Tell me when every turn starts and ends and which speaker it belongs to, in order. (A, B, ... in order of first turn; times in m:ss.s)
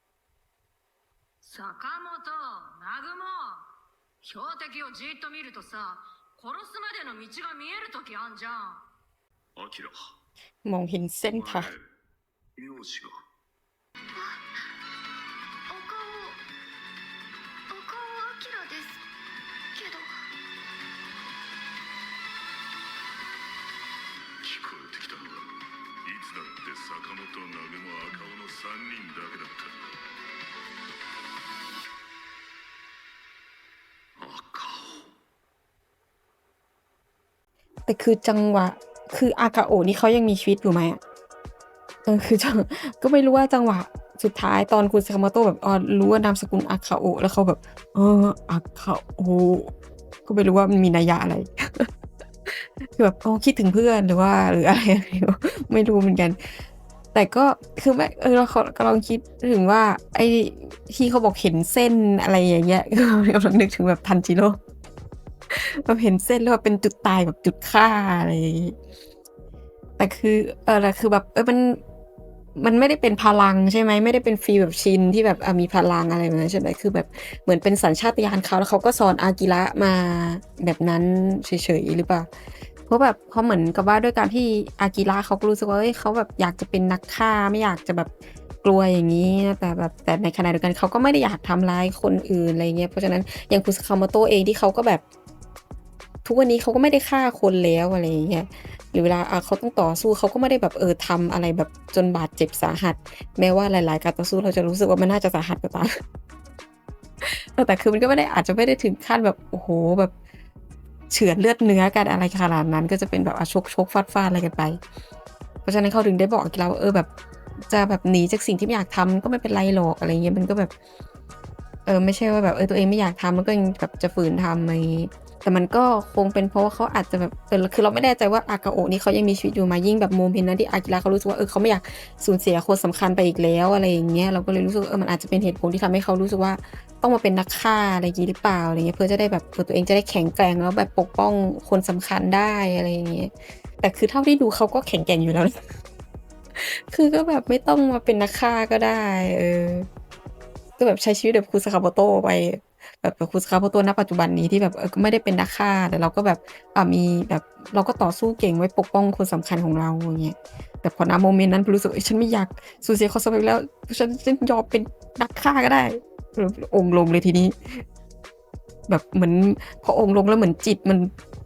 0:01.4-0:03.6 A
0:04.2-0:08.8 A
0:09.6-0:10.1 B
0:10.6-0:11.7 C
0:11.3-0:11.9 B
0:12.6-0:13.2 B
0:14.2-0:14.4 D
0:15.7-0:16.4 D
0:17.7-0:19.0 D
0:19.7-0:20.1 D
0:24.4-0:25.5 B
0:26.0-0:29.9 B
0:34.2-0:35.1 B
0:37.9-0:41.0 C
0:42.1-0:49.7 C
0:50.3-0:51.9 C
0:52.5-0:56.4 C
0:57.1-1:04.6 C
1:05.5-1:08.8 C
1:10.0-1:11.8 C
1:12.6-1:22.3 C
1:22.9-1:28.1 C
1:28.6-1:35.0 C
1:36.2-1:45.9 C
1:47.2-1:50.1 C
1:51.1-1:54.8 C
1:55.6-1:57.1 C
1:57.7-2:00.7 C
2:01.9-2:25.6 C
2:26.6-2:29.9 C
2:30.8-2:47.8 C
2:48.9-2:51.1 C